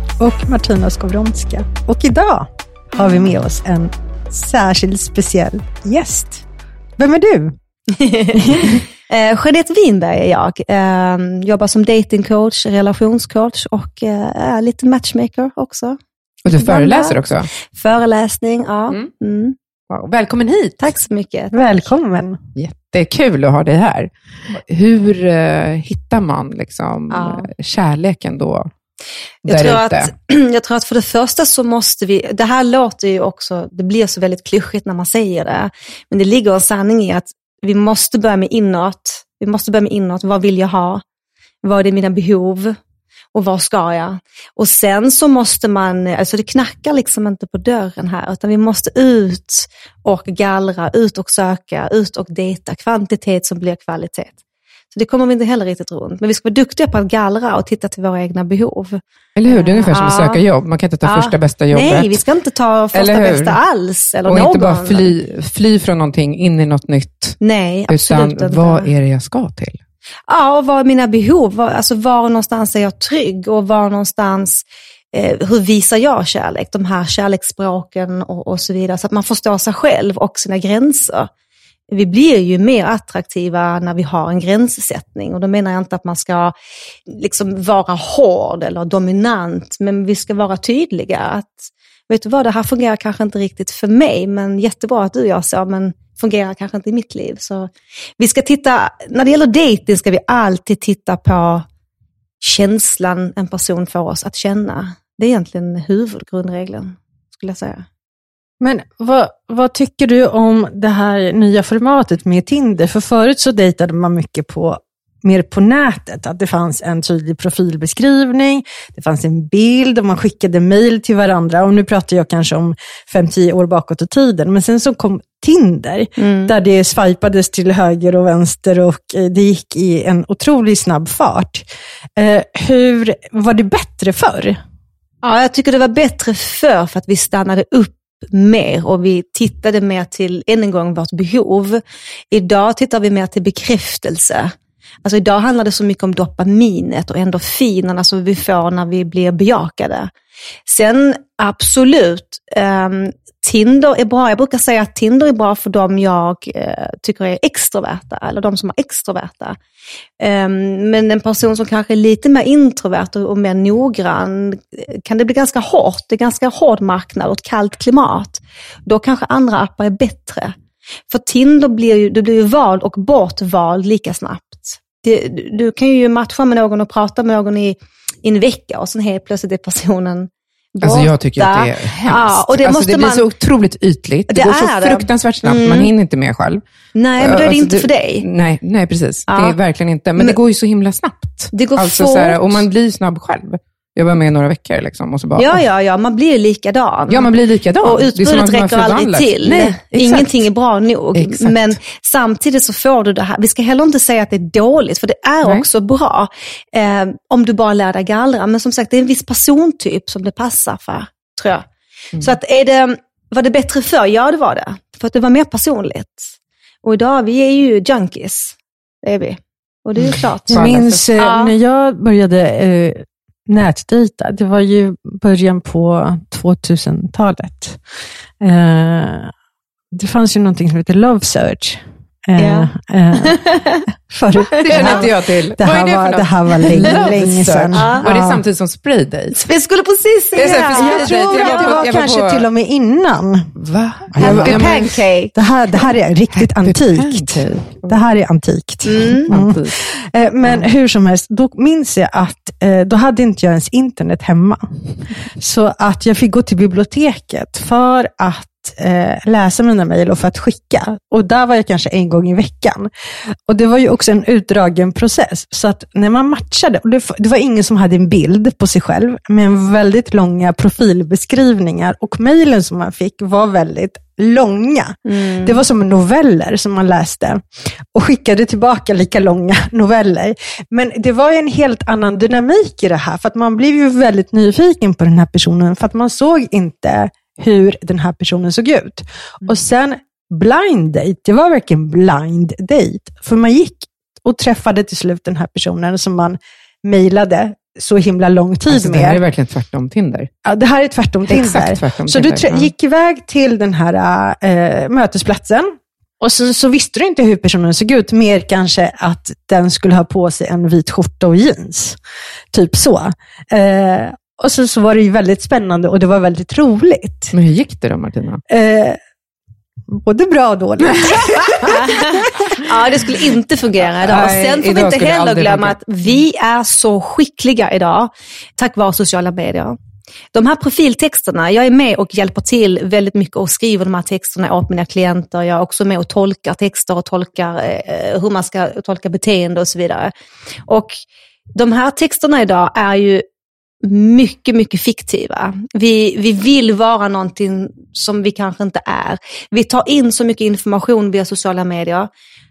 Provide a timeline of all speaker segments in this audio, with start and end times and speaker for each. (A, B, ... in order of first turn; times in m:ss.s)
0:00.2-0:06.4 A
0:07.0-0:07.6 A
0:07.9-0:16.0 B
0:08.3-0:08.8 A
0:16.4-0:17.5 C
0:16.5-0:19.6 B
0:19.9-0:20.9 C
0:20.8-0:21.8 B
0:21.5-0:22.4 A
0:22.5-0:28.7 C
0:27.1-0:27.5 B
0:29.4-0:41.0 B
0:29.4-0:30.1 C
0:41.6-0:42.8 B
0:43.3-0:54.4 B
0:54.9-1:00.4 B
0:59.3-1:02.2 C
1:01.0-1:05.1 B
1:02.9-1:03.6 C
1:04.3-1:09.8 C
1:07.4-1:08.9 B
1:10.3-1:21.3 B
1:21.9-1:26.5 B
1:27.1-1:41.6 B
1:42.4-1:47.8 B
1:48.6-2:14.6 A
2:06.2-2:06.5 B
2:15.2-2:24.5 B
2:25.0-2:30.1 B
2:30.7-2:39.6 B
2:40.2-2:50.5 B
2:51.1-3:03.2 B
3:00.8-3:06.6 C
3:04.3-3:05.9 B
3:06.9-3:08.2 B
3:07.2-3:15.6 C
3:09.3-3:09.6 B
3:11.5-3:12.6 B
3:15.4-3:17.3 B
3:17.1-3:20.4 C
3:17.8-3:36.3 B
3:21.1-3:21.7 C
3:36.8-3:41.5 B
3:40.0-3:41.1 C
3:40.5-3:47.8 A
3:48.4-3:49.3 A
3:49.9-3:58.4 A
3:52.4-3:53.8 B
3:54.5-3:55.1 B
3:54.6-3:59.4 C
3:56.8-3:57.1 B
3:57.7-3:58.0 B
3:59.4-4:01.8 B
4:00.3-4:02.4 C
4:00.7-4:03.5 A
4:03.6-4:05.0 C
4:04.2-4:59.2 A
4:04.2-4:05.3 B
4:06.3-4:08.0 C
4:08.8-4:09.3 B
4:09.3-4:09.8 C
4:35.0-4:35.6 B
4:58.7-5:00.3 C
5:00.4-5:12.0 A
5:01.3-5:02.7 C
5:12.5-5:17.3 A
5:17.3-5:18.4 C
5:18.5-5:19.0 A
5:19.9-5:21.9 A
5:20.9-5:21.7 C
5:21.6-5:29.8 B
5:24.0-5:25.8 C
5:30.3-5:40.1 B
5:40.7-5:41.0 B
5:41.5-5:43.2 B
5:43.8-5:52.1 B